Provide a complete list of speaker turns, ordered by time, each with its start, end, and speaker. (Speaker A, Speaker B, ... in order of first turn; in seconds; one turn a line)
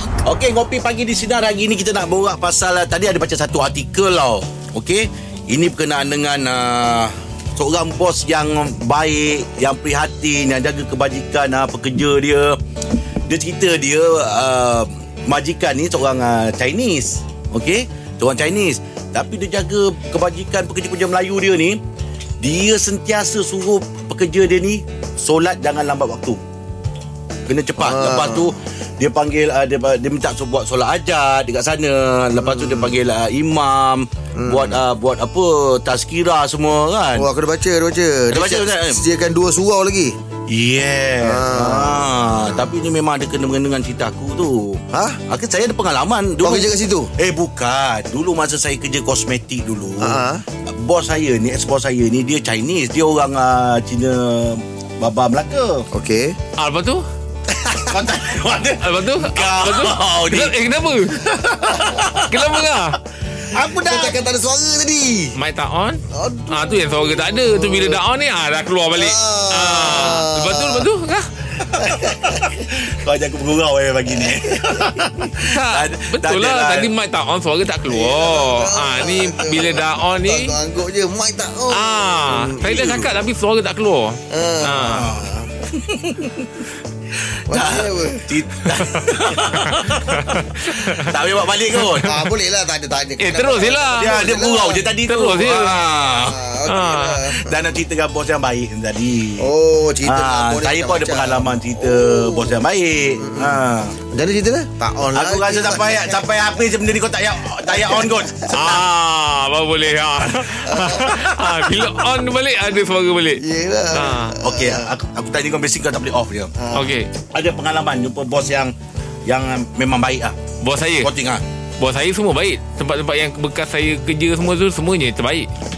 Speaker A: 0.2-12.6
Speaker A: 13.3-21.8
Speaker A: 22.4-26.4
Speaker A: 27.5-37.3
Speaker B: 27.8-28.5
Speaker B: 32.4-32.9
Speaker B: 34.3-34.8
Speaker B: 37.1-40.1
Speaker A: 38.3-39.0
Speaker A: 40.5-55.9
Speaker B: 41.2-42.1
Speaker B: 44.9-45.2
Speaker B: 46.4-47.1
Speaker B: 50.0-50.4
Speaker B: 55.9-56.4
Speaker C: 56.5-57.0
Speaker B: 57.5-58.0
Speaker A: 57.9-60.5
Speaker C: 58.8-61.2
Speaker A: 61.1-62.7
Speaker C: 62.0-63.0
Speaker A: 63.5-64.2
Speaker B: 63.7-65.3
Speaker C: 65.3-71.3
Speaker B: 66.1-68.0
Speaker B: 68.9-70.9
Speaker A: 71.7-76.9
Speaker B: 71.8-72.5
Speaker B: 74.2-75.3
Speaker C: 75.4-80.5
Speaker B: 77.9-83.1
Speaker C: 81.7-85.1
Speaker B: 84.3-85.5
Speaker A: 84.8-86.5
Speaker A: 87.2-92.1
Speaker B: 87.5-88.3
Speaker C: 88.8-91.1
Speaker C: 91.7-92.1
Speaker B: 92.0-94.8
Speaker C: 93.2-94.2
Speaker A: 94.0-96.4
Speaker C: 95.0-95.8
Speaker B: 95.4-97.6
Speaker C: 96.7-97.3
Speaker A: 97.3-104.0
Speaker B: 99.4-102.6
Speaker B: 103.2-106.2
Speaker A: 105.1-108.9
Speaker B: 107.6-108.3
Speaker C: 108.5-114.4
Speaker B: 110.6-111.2
Speaker B: 113.4-114.9
Speaker A: 114.4-116.5
Speaker B: 116.6-116.9
Speaker C: 116.7-117.1
Speaker A: 117.3-118.7
Speaker A: 119.2-120.3
Speaker C: 120.6-121.1
Speaker A: 121.0-121.4
Speaker C: 121.8-125.5